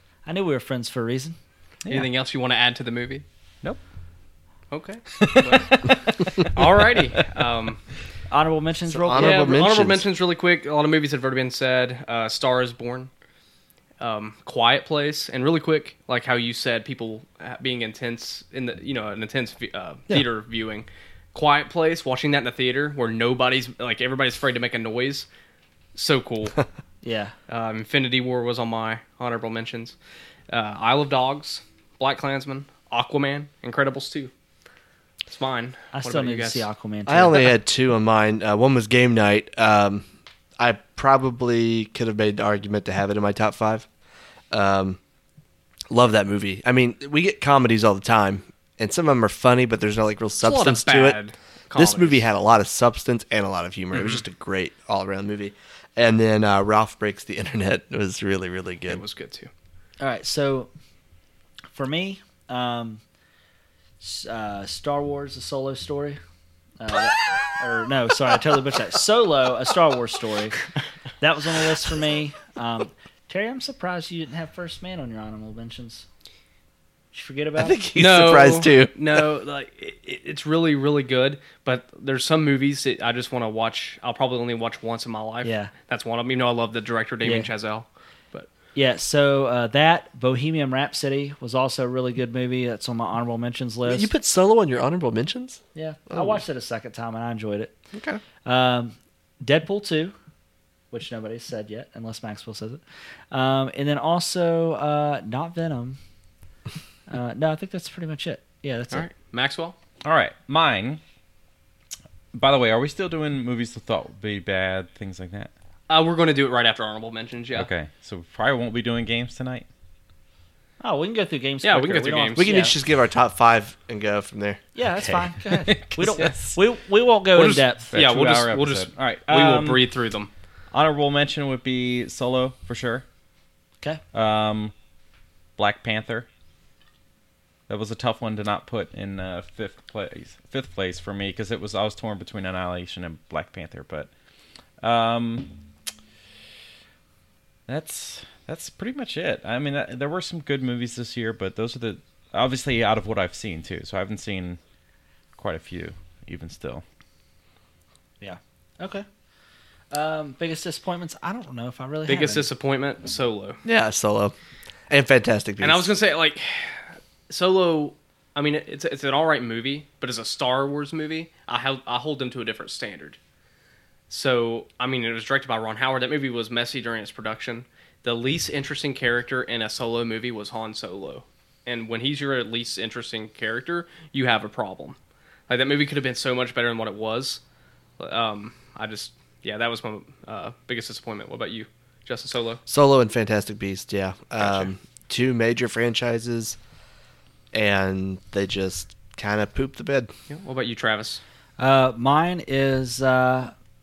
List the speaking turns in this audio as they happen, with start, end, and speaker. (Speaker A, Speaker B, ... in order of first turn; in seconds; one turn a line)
Speaker A: 0.2-1.4
Speaker B: 1.9-3.2
Speaker B: 4.7-7.8
Speaker C: 5.2-6.6
Speaker A: 8.3-9.6
Speaker D: 8.9-10.1
Speaker B: 9.1-13.1
Speaker B: 14.0-25.3
Speaker B: 25.9-26.6
Speaker A: 27.0-27.3
Speaker B: 27.5-29.9
Speaker B: 30.5-34.3
Speaker B: 35.3-36.6
Speaker A: 35.9-37.5
Speaker D: 37.1-40.0
Speaker D: 40.6-43.9
Speaker D: 44.5-45.0
Speaker D: 45.9-51.2
Speaker B: 50.4-52.3
Speaker D: 51.7-59.0
Speaker B: 58.9-59.5
Speaker A: 60.0-60.7
Speaker A: 61.7-63.0
Speaker A: 64.0-66.2
Speaker A: 66.8-70.6
Speaker A: 71.2-76.0
Speaker A: 77.1-77.8
Speaker D: 77.6-78.9
Speaker B: 78.0-88.5
Speaker A: 85.4-85.7
Speaker A: 87.2-87.5
Speaker A: 88.7-94.1
Speaker D: 93.9-96.4
Speaker A: 95.7-97.7
Speaker D: 97.9-98.2
Speaker A: 98.4-100.1
Speaker A: 100.9-102.8
Speaker A: 103.3-106.0
Speaker A: 107.1-109.1
Speaker B: 108.9-109.7
Speaker C: 110.0-111.0
Speaker C: 112.3-115.5
Speaker B: 115.9-117.7
Speaker C: 117.5-119.7
Speaker A: 120.8-122.7
Speaker B: 121.6-122.5
Speaker D: 122.3-124.6
Speaker A: 124.7-127.9
Speaker C: 125.0-126.6
Speaker B: 127.4-130.3
Speaker C: 127.9-129.8
Speaker C: 130.7-133.0
Speaker C: 134.1-134.7
Speaker C: 135.6-136.3
Speaker C: 137.7-144.1
Speaker C: 144.8-145.5
Speaker C: 147.7-154.6
Speaker C: 155.4-156.8
Speaker A: 158.2-159.1
Speaker A: 159.9-162.5
Speaker B: 162.1-163.6
Speaker D: 163.6-164.3
Speaker D: 164.9-165.9
Speaker B: 165.6-173.2
Speaker B: 174.1-185.0
Speaker B: 185.5-187.4
Speaker B: 188.0-192.6
Speaker D: 192.7-196.6
Speaker B: 194.4-194.7
Speaker D: 197.5-200.1
Speaker B: 200.3-201.2
Speaker A: 201.6-203.5